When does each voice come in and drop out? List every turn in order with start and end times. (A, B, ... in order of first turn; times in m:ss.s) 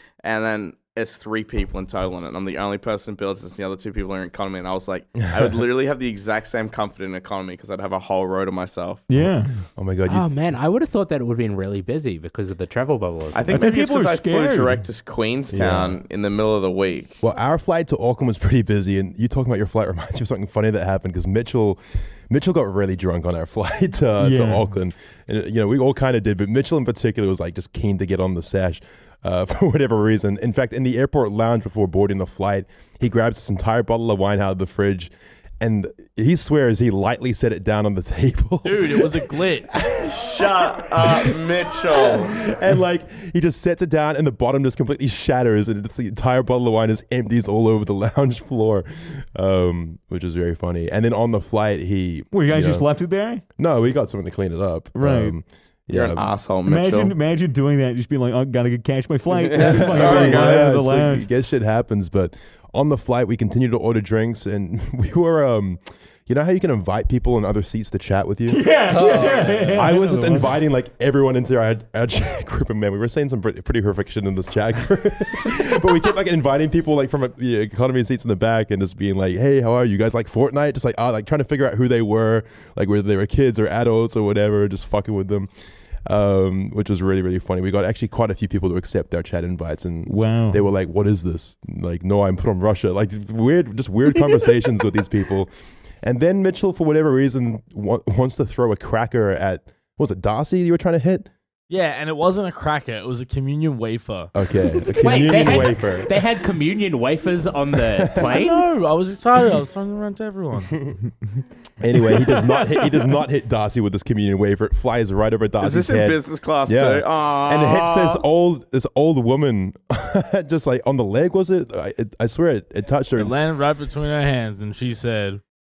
0:00.2-0:09.0 A
0:09.1-0:09.6 B
0:09.2-0:10.3 C
0:10.1-0:13.5 D
0:13.3-0:17.2 A
0:13.5-0:14.8 B
0:15.5-0:16.0 C
0:17.2-0:52.9 C
0:24.2-0:24.7 B
0:38.6-0:39.7 E
0:40.0-0:42.5 A
0:52.3-0:53.4 B
0:53.6-0:56.2 C
0:54.9-0:55.4 B
0:55.9-0:57.1 A
0:56.6-1:01.3 B
0:59.3-1:00.7 A
0:59.5-1:08.6 C
1:08.5-1:10.6 B
1:08.9-1:09.8 A
1:09.7-1:25.5 C
1:26.0-1:35.5 C
1:30.0-1:30.6 B
1:36.0-1:41.3 C
1:41.7-1:44.3 E
1:44.3-1:46.2 C
1:45.0-1:48.6 D
1:48.0-1:48.3 C
1:48.3-1:50.8 E
1:51.8-2:03.3 C
1:52.0-1:53.0 B
1:55.6-1:58.2 A
2:03.2-2:05.4 E